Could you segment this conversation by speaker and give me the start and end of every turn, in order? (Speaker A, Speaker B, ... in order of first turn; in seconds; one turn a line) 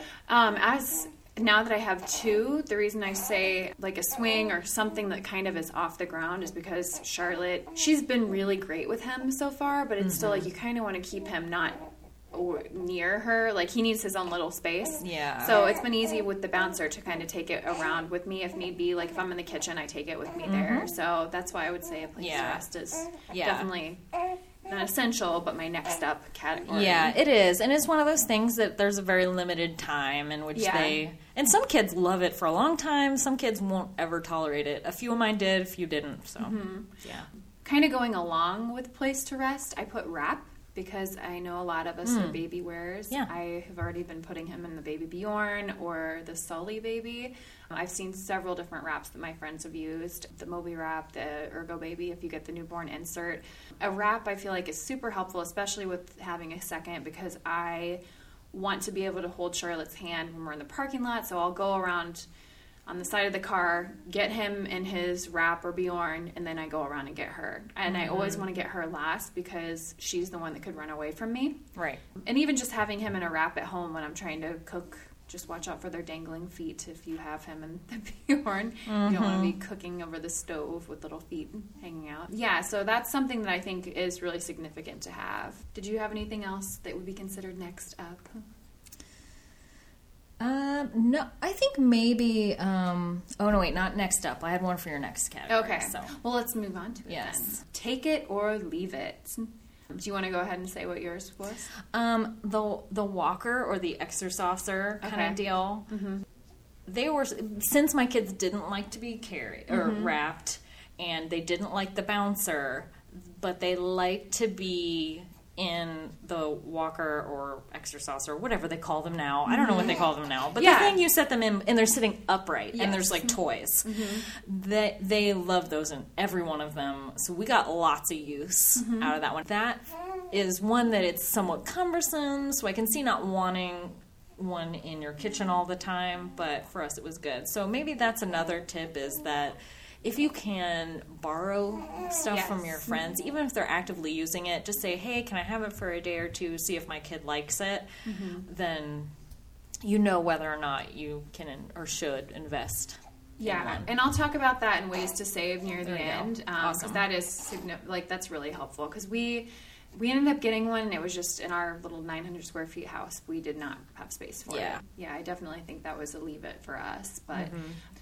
Speaker A: 0.3-24.0
Speaker B: 10.0-10.5
Speaker B: 15.0-15.7
Speaker B: 20.4-20.9
Speaker B: 22.2-22.6
Speaker B: 23.3-23.7
Speaker A: 24.7-27.2
Speaker B: 26.7-37.3
Speaker A: 30.5-31.0
Speaker A: 36.4-36.9
Speaker A: 37.6-58.0
Speaker B: 42.0-42.4
Speaker A: 58.5-62.3
Speaker A: 62.9-71.6
Speaker B: 67.9-68.5
Speaker B: 71.8-72.1
Speaker A: 72.2-88.5
Speaker B: 78.9-79.6
Speaker B: 90.4-96.1
Speaker A: 95.5-101.7
Speaker B: 97.1-97.6
Speaker B: 101.8-105.9
Speaker A: 105.0-106.2
Speaker B: 106.9-147.9
Speaker A: 109.7-110.1
Speaker A: 119.5-120.0
Speaker A: 120.6-121.0
Speaker A: 122.8-124.3
Speaker A: 128.8-129.1
Speaker A: 142.3-143.0
Speaker A: 148.1-148.5
Speaker B: 148.4-149.1
Speaker B: 149.8-153.9
Speaker A: 153.4-167.6
Speaker B: 155.8-157.1
Speaker B: 164.5-164.8
Speaker B: 167.3-167.8